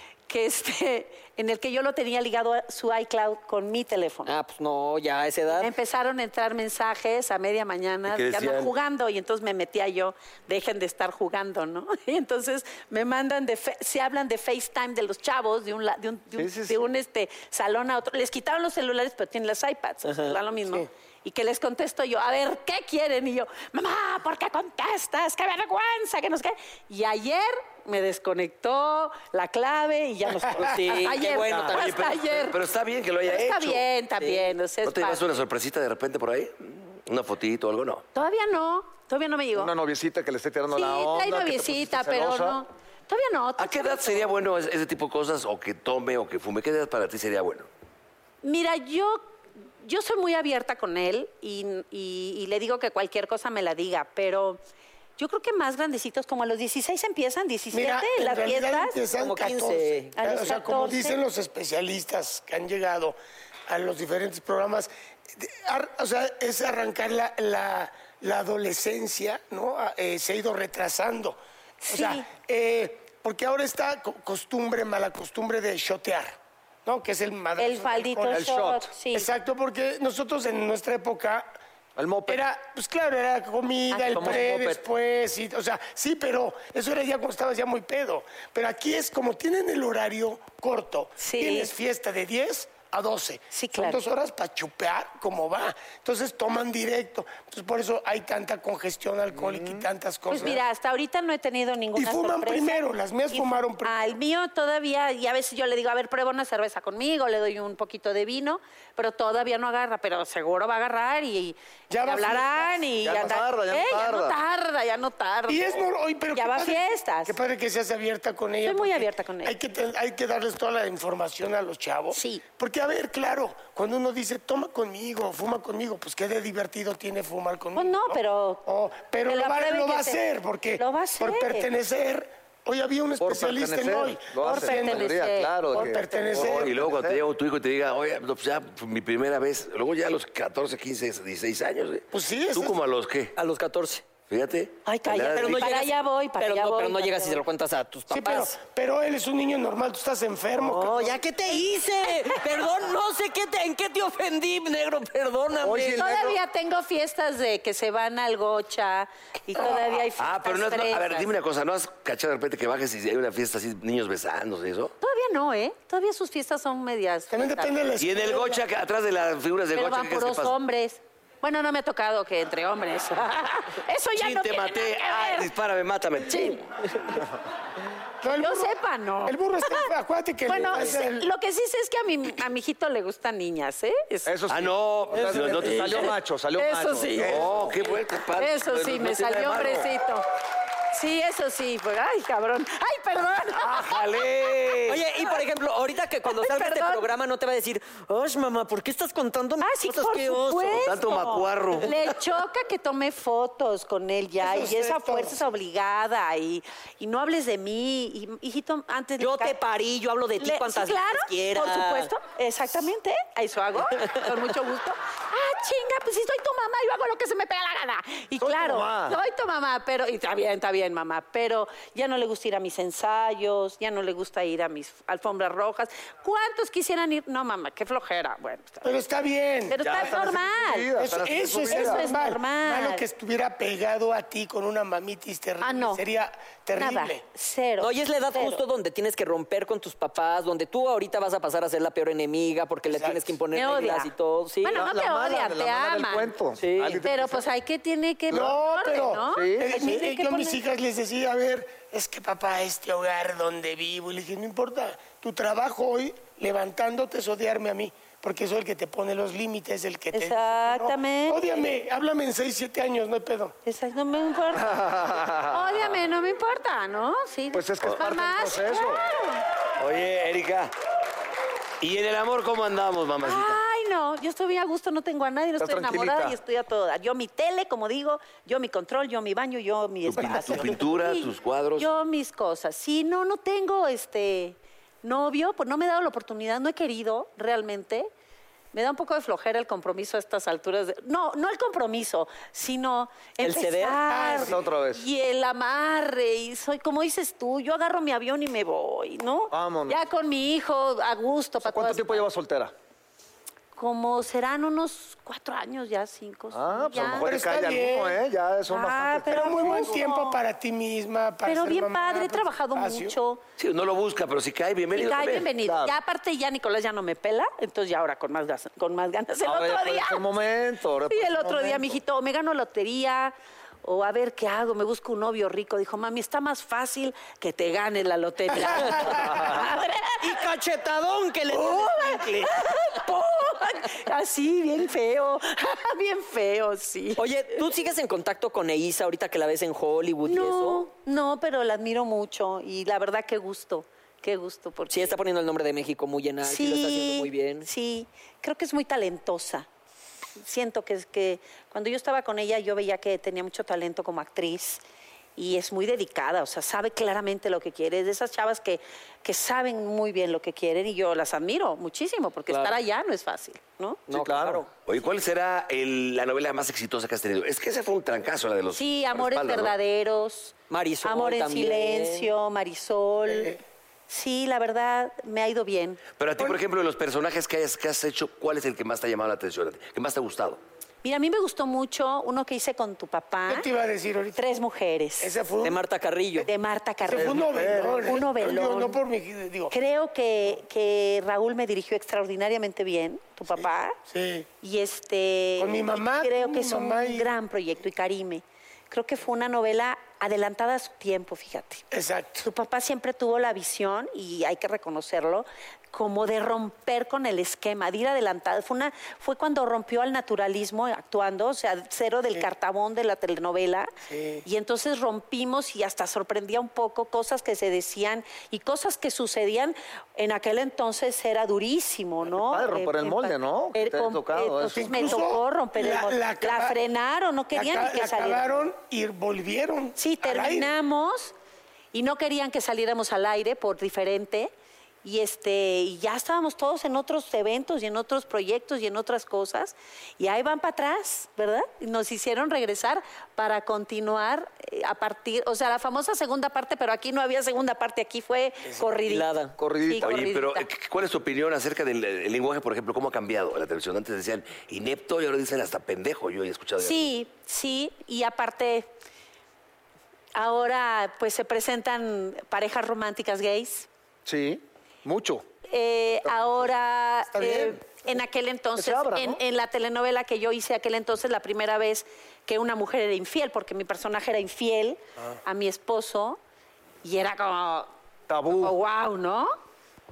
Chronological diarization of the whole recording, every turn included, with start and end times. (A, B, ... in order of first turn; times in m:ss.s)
0:00.3-0:04.3 A
0:04.3-0:05.7 B
0:05.5-0:32.6 A
0:08.1-0:08.7 C
0:16.4-0:16.8 D
0:20.0-0:20.4 B
0:30.5-0:32.1 B
0:31.7-0:33.8 C
0:33.2-0:35.2 A
0:34.2-0:34.5 B
0:34.8-0:38.0 C
0:38.1-0:39.7 A
0:39.6-0:42.6 D
0:40.7-0:44.3 A
0:43.6-0:47.7 C
0:48.4-0:54.6 A
0:55.2-0:59.0 A
0:57.7-1:03.2 E
0:59.2-1:00.1 B
1:00.2-1:01.2 A
1:03.7-1:18.5 E
1:11.8-1:12.3 A
1:17.6-1:19.3 A
1:18.3-1:18.9 D
1:19.1-1:21.5 E
1:22.0-1:22.4 D
1:22.3-1:40.6 E
1:23.9-1:24.5 A
1:24.1-1:24.8 D
1:31.2-1:31.7 A
1:33.5-1:34.0 A
1:39.3-1:39.9 D
1:40.3-1:57.4 A
1:41.9-1:44.2 E
1:51.9-1:52.9 E
1:53.0-1:54.4 D
1:55.5-2:16.7 E
1:58.6-1:59.6 A
2:02.1-2:02.4 A
2:07.8-2:08.6 A
2:09.3-2:10.2 A
2:10.8-2:11.7 A
2:13.2-2:17.2 D
2:14.4-2:16.3 A
2:16.3-2:23.3 C
2:22.1-2:22.8 E
2:23.4-2:24.0 B
2:24.3-2:25.8 C
2:24.9-2:27.4 A
2:25.2-2:28.5 B
2:28.1-2:31.2 E
2:30.6-2:36.1 B
2:35.6-2:36.4 D
2:36.0-2:41.3 A
2:40.2-2:44.9 C
2:45.0-2:47.8 A
2:47.3-2:48.6 E
2:48.0-2:50.6 C
2:49.7-2:55.5 A
2:54.2-2:57.2 C
2:56.3-2:56.6 A
2:58.2-3:01.3 E
2:58.4-2:59.9 A
3:00.5-3:04.3 A
3:04.3-3:07.8 D
3:04.5-3:06.1 C
3:05.7-3:07.4 A
3:07.2-3:09.9 C
3:08.4-3:10.3 A
3:10.9-3:14.8 A
3:13.6-3:15.0 C
3:14.9-3:20.9 B
3:16.3-3:17.1 A
3:19.6-3:29.6 A
3:20.8-3:21.9 C
3:24.4-3:25.4 E
3:29.2-3:32.1 B
3:30.4-3:48.9 A
3:38.4-3:39.2 D
3:48.8-3:50.2 E
3:49.7-3:53.0 A
3:49.8-3:52.1 D
3:51.0-3:57.2 E
3:55.6-3:56.0 A
3:56.8-3:58.6 A
3:57.8-4:04.8 B
4:02.9-4:03.4 E
4:03.5-4:06.3 A
4:04.7-4:07.5 D
4:06.6-4:07.0 B
4:07.0-4:10.6 A
4:08.3-4:23.6 E
4:09.3-4:09.8 D
4:20.1-4:21.6 A
4:23.6-4:29.4 A
4:24.6-4:25.8 D
4:27.5-4:29.0 D
4:29.8-4:30.7 C
4:31.8-4:33.6 C
4:33.2-4:48.1 A
4:35.6-4:36.4 D
4:40.0-4:41.9 C
4:40.2-4:40.7 E
4:48.7-5:02.2 A
4:53.4-4:54.0 B
4:54.1-4:54.6 E
4:54.4-4:55.1 D
4:59.5-5:00.0 D
5:01.6-5:02.7 D
5:03.8-5:07.3 A
5:06.5-5:10.0 D
5:07.1-5:08.2 E
5:08.7-5:10.4 A
5:09.3-5:13.2 E
5:11.4-5:13.4 A
5:13.6-5:15.5 C
5:14.9-5:20.3 A
5:15.6-5:15.9 D
5:19.4-5:22.0 D
5:21.1-5:30.3 A
5:28.8-5:29.4 E
5:29.2-5:29.6 D
5:30.2-5:32.7 B
5:31.5-5:37.2 A
5:37.2-5:40.9 B
5:40.2-5:45.2 A
5:44.9-5:47.6 B
5:46.4-5:49.7 A
5:50.4-5:54.8 A
5:55.4-6:04.0 A
6:02.5-6:02.8 B
6:04.1-6:04.7 B
6:04.1-6:04.6 D
6:04.9-6:09.8 C
6:08.7-6:13.6 A
6:10.7-6:12.3 B
6:13.3-6:13.6 E
6:14.1-6:16.0 A
6:16.2-6:20.6 C
6:21.0-6:23.7 A
6:23.5-6:24.4 E
6:24.4-6:25.3 A
6:25.2-6:25.8 E
6:25.6-6:26.5 B
6:26.4-6:29.0 A
6:27.0-6:29.7 E
6:27.1-6:28.2 D
6:29.7-6:34.0 A
6:33.5-6:34.5 E
6:34.6-6:41.8 A
6:35.6-6:37.3 E
6:41.9-6:42.4 E
6:42.4-6:53.9 A
6:54.1-6:54.4 E
6:54.4-7:08.4 A
7:02.3-7:05.0 D
7:04.7-7:06.8 E
7:07.5-7:10.7 E
7:10.0-7:11.4 A
7:11.9-7:14.5 A
7:15.0-7:30.7 A
7:29.1-7:29.6 B
7:29.6-7:30.2 D
7:30.0-7:37.1 C
7:36.8-7:38.9 A
7:40.4-7:43.9 A
7:44.3-7:45.4 D
7:45.7-7:56.4 A
7:47.3-7:47.8 E
7:48.8-7:49.4 D
7:57.0-7:57.9 A
7:58.3-7:58.8 D
7:58.5-7:59.5 A